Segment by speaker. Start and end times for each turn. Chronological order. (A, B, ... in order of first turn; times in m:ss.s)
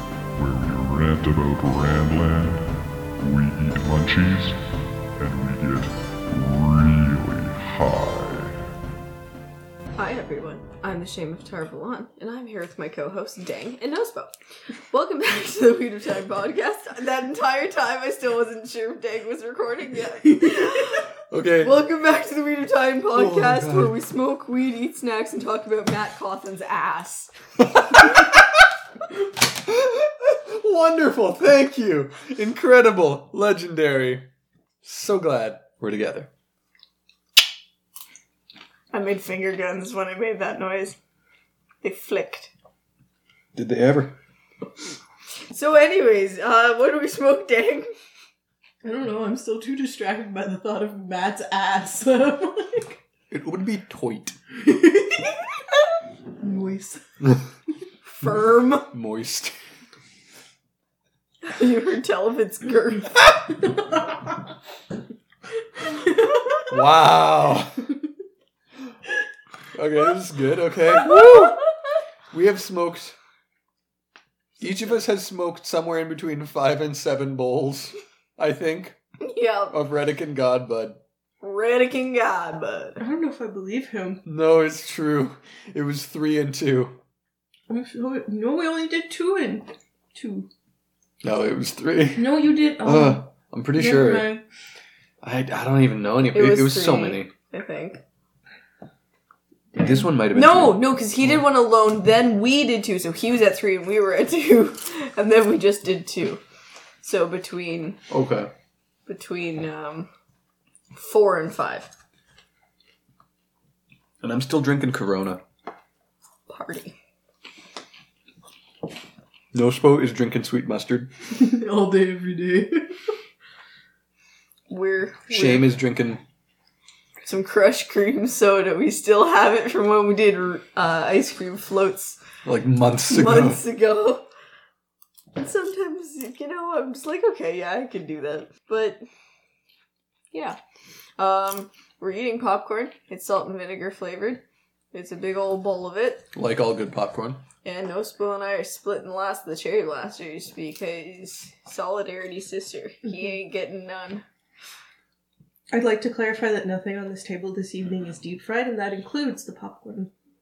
0:00.3-0:08.7 A
0:10.0-0:14.3 B
0:14.9-0:27.3 B
0:20.1-0:20.7 C
0:21.3-0:21.8 D
0:23.1-0:24.0 D
0:27.6-0:28.4 D
0:29.4-0:34.3 D
0:34.8-0:36.3 D
0:38.9-0:41.0 B
0:41.8-0:42.5 B
0:43.5-0:44.2 D
0:45.5-0:47.9 B
0:48.8-0:53.0 C
0:53.3-0:54.4 D
0:54.6-0:55.5 C
0:56.4-0:57.0 C
0:58.1-0:58.9 B
0:58.9-0:59.5 D
1:01.4-1:03.3 B
1:03.9-1:04.2 C
1:05.9-1:06.6 C
1:06.7-1:07.8 D
1:09.7-1:11.6 D
1:11.1-1:11.4 B
1:12.3-1:13.2 D
1:14.6-1:19.0 D
1:19.2-1:19.8 B
1:19.7-1:21.0 D
1:21.4-1:23.0 B
1:23.0-1:24.2 C
1:24.2-1:27.0 D
1:27.7-1:30.5 C
1:31.2-1:34.3 D
1:32.1-1:34.4 C
1:35.2-1:37.3 D
1:36.3-1:38.0 B
1:39.7-1:40.1 C
1:39.8-1:41.4 D
1:40.3-1:46.4 B
1:47.0-1:48.0 B
1:48.1-1:48.5 D
1:49.1-1:50.1 B
1:50.9-1:51.9 B
1:54.2-1:55.4 D
1:56.5-1:56.9 B
1:59.5-2:01.1 D
2:01.3-2:03.1 C
2:04.7-2:05.7 B
2:05.3-2:06.2 D
2:07.2-2:12.2 B
2:12.4-2:13.6 D
2:13.1-2:14.3 B
2:15.4-2:19.0 B
2:20.3-2:20.6 B
2:21.2-2:26.2 B
2:26.3-2:27.4 D
2:27.6-2:34.2 B
2:35.7-2:40.1 C